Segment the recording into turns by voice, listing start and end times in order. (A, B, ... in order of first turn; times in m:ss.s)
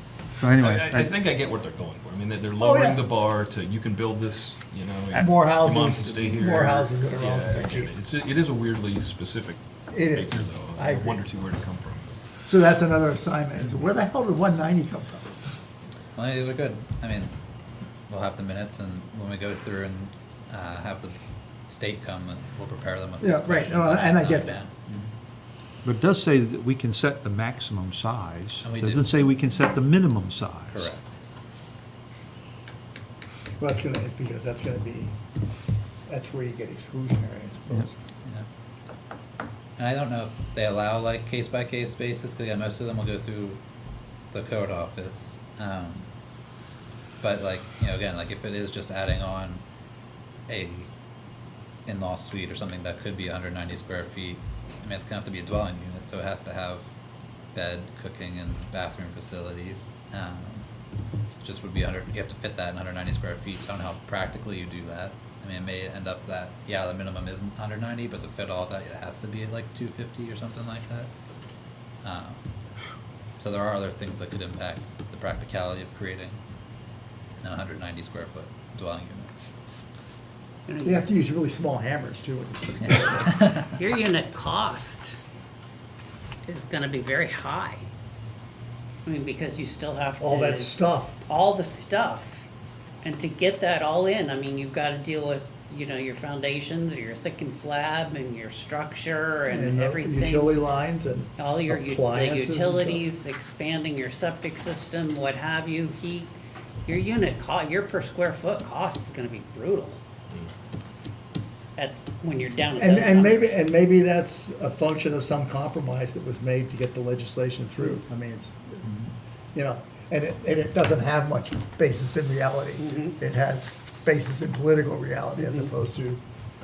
0:00.4-0:01.1 A
0:00.6-0:09.6 B
0:02.6-0:03.0 C
0:05.1-0:07.9 C
0:09.9-0:11.2 C
0:10.1-0:12.2 B
0:12.4-0:15.5 C
0:16.2-0:17.3 D
0:18.1-0:21.2 D
0:21.7-0:25.1 D
0:23.2-0:24.6 C
0:25.8-0:30.9 A
0:28.6-0:29.3 D
0:30.7-0:31.1 D
0:33.6-0:35.2 C
0:36.1-0:38.0 C
0:39.8-0:43.6 D
0:44.3-0:46.1 D
0:47.2-0:49.6 D
0:50.5-0:50.9 D
0:51.8-0:56.9 D
0:57.5-1:00.7 D
1:01.4-1:11.1 D
1:12.0-1:12.4 D
1:13.4-1:16.4 D
1:17.4-1:19.3 D
1:20.7-1:21.1 E
1:20.8-1:23.5 C
1:23.6-1:25.2 E
1:26.4-1:27.8 E
1:29.0-1:32.5 E
1:30.2-1:31.2 C
1:33.0-1:40.6 E
1:39.5-1:43.0 C
1:41.4-1:46.3 E
1:46.8-1:50.0 E
1:51.8-1:53.5 E
1:52.8-1:58.8 C
1:59.5-2:06.2 C
2:02.8-2:03.2 E
2:05.4-2:05.6 E